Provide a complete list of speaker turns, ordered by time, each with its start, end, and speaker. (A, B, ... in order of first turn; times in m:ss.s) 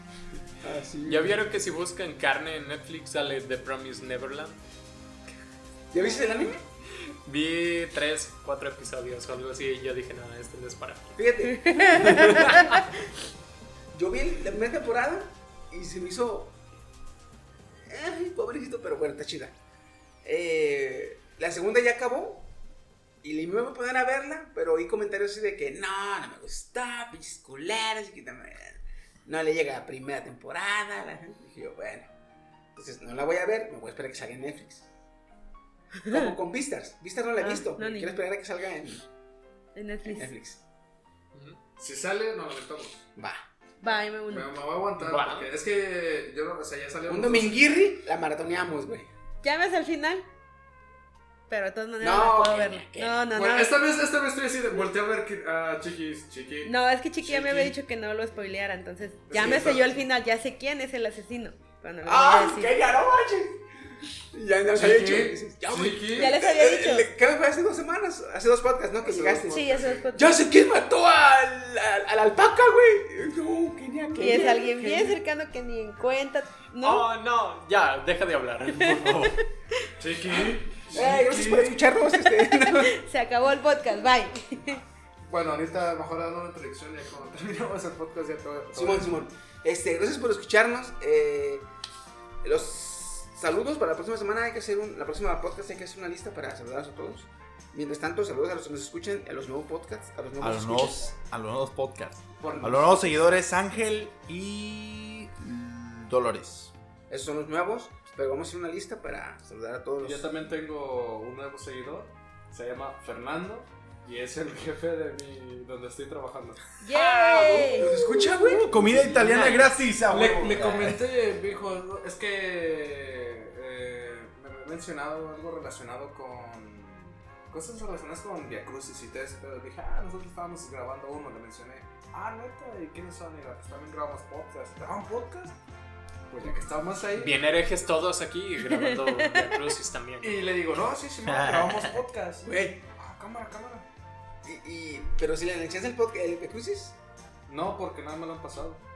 0:00.6-0:01.4 A
0:01.0-0:04.6 B
0:05.9-0:06.6 A
0:06.0-0:06.5 C
0:07.2-0:11.2 B
0:11.2-0:12.5 A
0:11.5-0:12.8 C
0:12.0-0:12.8 B
0:13.9-0:16.6 A
0:17.9-0:19.5 A
0:20.2-0:22.5 A
0:23.2-0:32.1 A
0:32.7-0:34.9 A
0:36.0-0:36.4 C
0:36.1-0:39.0 A
0:37.4-0:38.2 C
0:39.8-0:40.3 C
0:40.1-0:40.6 A
0:41.3-0:41.6 B
0:41.8-0:43.1 D
0:43.2-0:43.4 A
0:43.8-0:44.5 C
0:44.3-0:47.6 D
0:45.0-0:45.5 B
0:47.1-0:49.1 A
0:49.4-0:50.2 C
0:51.5-0:53.8 C
0:52.0-0:53.2 A
0:53.3-0:57.7 D
0:56.6-1:02.7 C
0:59.3-1:00.0 D
0:59.3-0:59.9 A
1:02.0-1:03.6 A
1:04.3-1:15.2 A
1:04.7-1:06.3 D
1:06.1-1:07.1 C
1:09.0-1:10.1 D
1:09.5-1:10.4 C
1:14.2-1:17.1 C
1:16.8-1:19.4 B
1:18.8-1:19.4 C
1:20.0-1:21.9 D
1:20.9-1:22.9 A
1:22.2-1:24.8 C
1:25.3-1:29.2 D
1:28.7-1:31.6 A
1:32.4-1:41.1 A
1:40.4-1:46.7 E
1:42.4-1:43.3 D
1:47.1-1:50.3 A
1:50.0-1:56.6 D
1:56.8-1:58.0 C
1:56.9-1:58.1 B
1:57.8-1:58.7 A
1:58.3-2:01.0 E
1:58.8-2:15.6 D
1:59.2-1:59.7 B
2:16.3-2:17.4 D
2:17.1-2:20.5 B
2:18.7-2:19.4 C
2:20.2-2:23.9 D
2:21.2-2:22.0 E
2:22.4-2:22.8 A
2:24.4-2:27.0 A
2:27.5-2:28.8 D